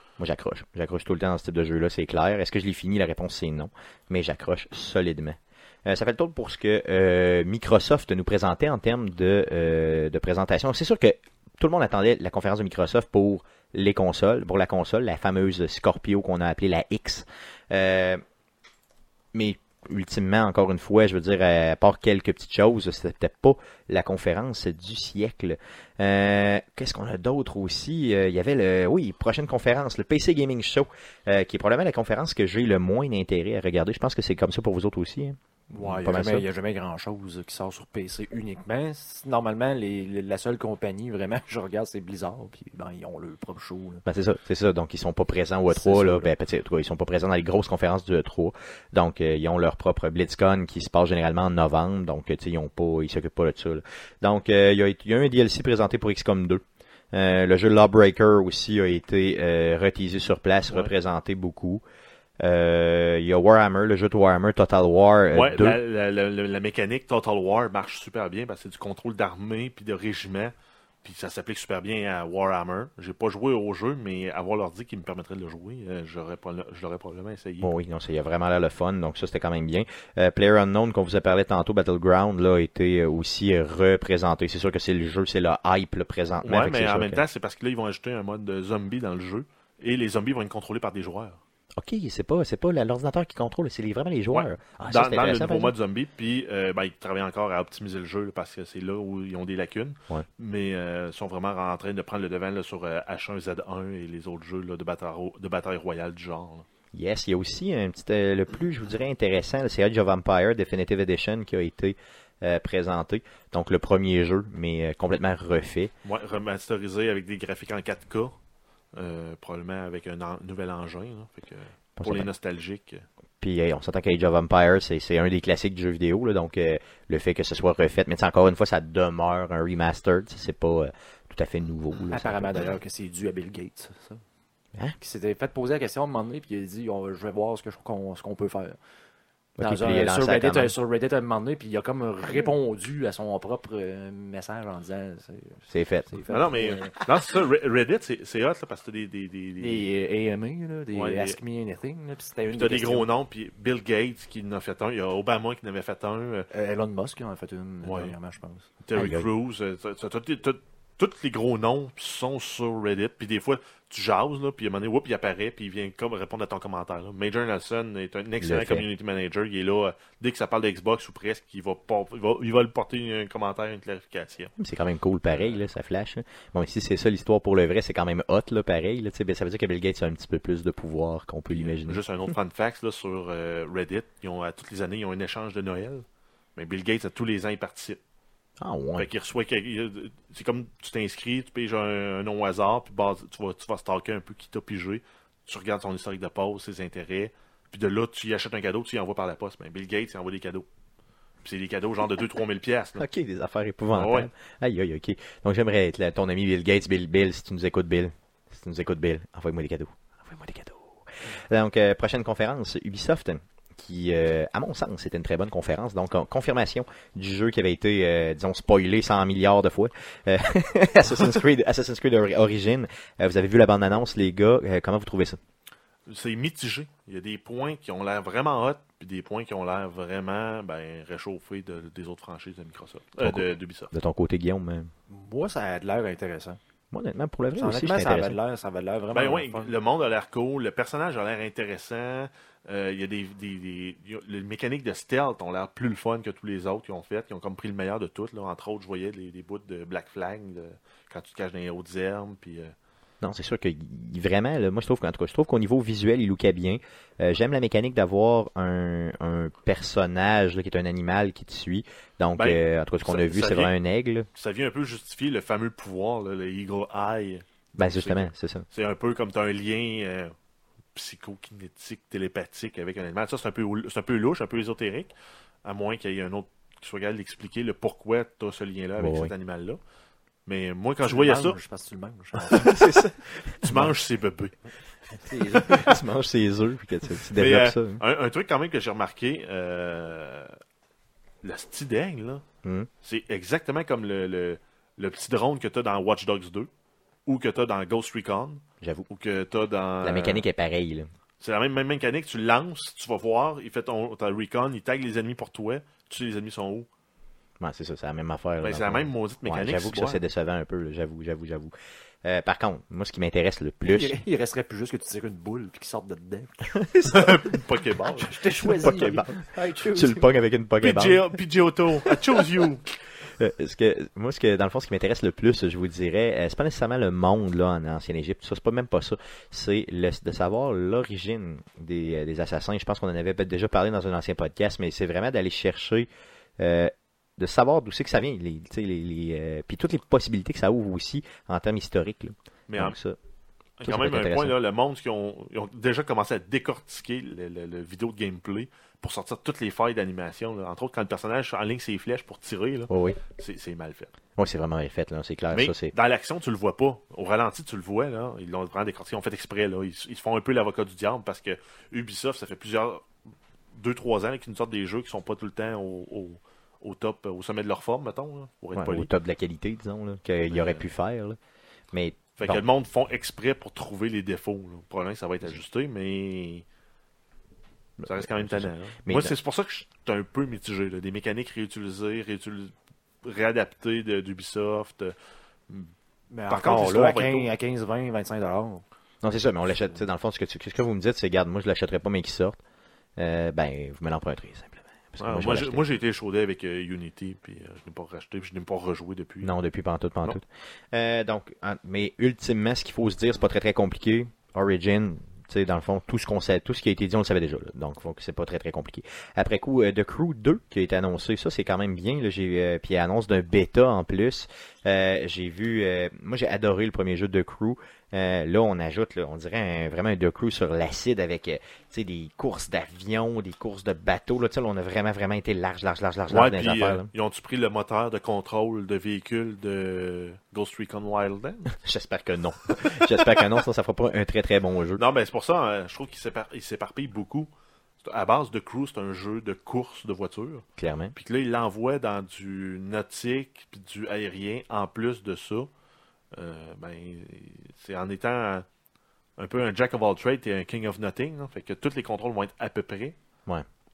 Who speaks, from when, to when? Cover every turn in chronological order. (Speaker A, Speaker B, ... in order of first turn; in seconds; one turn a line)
Speaker A: 0.2-18.2
Speaker A: 19.3-36.5
Speaker B: 35.7-44.0
Speaker A: 44.1-61.8
Speaker B: 45.7-46.3
Speaker A: 62.4-65.8
Speaker C: 65.3-77.7
Speaker A: 77.6-87.2
Speaker C: 86.5-91.4
Speaker A: 91.8-95.7
Speaker C: 94.3-106.7
Speaker A: 106.9-115.9
Speaker C: 116.0-118.3
Speaker C: 119.0-123.0
Speaker A: 122.0-122.3
Speaker A: 123.4-132.7
Speaker B: 132.0-134.2
Speaker B: 135.0-138.8
Speaker A: 139.6-140.7
Speaker B: 139.6-147.0
Speaker A: 145.7-146.2
Speaker C: 146.3-149.8
Speaker B: 149.6-153.1
Speaker C: 150.9-151.4
Speaker C: 152.5-156.5
Speaker B: 156.5-158.7
Speaker C: 157.8-158.1
Speaker C: 158.8-174.5
Speaker A: 158.9-159.3
Speaker A: 168.4-168.9
Speaker A: 174.6-182.0
Speaker C: 181.5-186.0
Speaker C: 186.6-188.0
Speaker A: 188.6-189.1
Speaker C: 189.0-200.7
Speaker C: 201.4-203.1
Speaker A: 203.0-225.4
Speaker C: 203.9-204.3
Speaker C: 226.1-233.9
Speaker A: 233.2-234.9
Speaker B: 235.1-236.6
Speaker A: 236.9-238.4
Speaker B: 237.6-239.7
Speaker C: 239.1-252.7
Speaker A: 253.2-264.3
Speaker C: 262.4-263.7
Speaker C: 264.4-270.3
Speaker A: 267.8-268.7
Speaker C: 270.9-275.1
Speaker C: 275.6-279.8
Speaker A: 279.0-279.3
Speaker C: 280.5-281.6
Speaker B: 281.0-282.9
Speaker A: 282.5-283.9
Speaker C: 282.5-282.9
Speaker C: 283.6-284.5
Speaker B: 285.1-286.0
Speaker A: 285.3-288.0
Speaker C: 287.3-290.5
Speaker C: 291.4-292.4
Speaker A: 292.6-292.9
Speaker C: 293.0-296.7
Speaker C: 297.3-300.4
Speaker A: 298.8-299.1
Speaker A: 300.0-301.1
Speaker C: 301.4-306.9
Speaker A: 307.6-311.7
Speaker C: 308.6-310.2
Speaker A: 312.2-314.2
Speaker B: 313.9-317.4
Speaker A: 316.8-317.3
Speaker C: 317.1-319.1
Speaker B: 318.1-320.3
Speaker A: 318.6-321.3
Speaker C: 320.8-322.9
Speaker A: 323.4-336.1
Speaker A: 336.6-343.2
Speaker C: 342.7-343.0
Speaker C: 343.8-354.1
Speaker A: 343.8-344.6
Speaker A: 352.9-353.2
Speaker A: 354.4-355.9
Speaker C: 355.5-363.1
Speaker C: 363.7-369.1
Speaker A: 368.8-371.4
Speaker C: 370.5-370.8
Speaker A: 371.9-372.6
Speaker C: 372.4-376.6
Speaker A: 378.0-379.4
Speaker C: 378.1-385.1
Speaker B: 386.3-388.8
Speaker C: 386.5-387.5
Speaker A: 389.2-392.6
Speaker A: 393.2-395.8
Speaker C: 395.2-399.5
Speaker A: 399.4-427.1
Speaker C: 426.3-431.8
Speaker A: 431.8-435.0
Speaker C: 435.0-437.5
Speaker C: 438.0-445.7
Speaker A: 440.8-441.2
Speaker C: 446.3-448.7
Speaker C: 449.4-453.2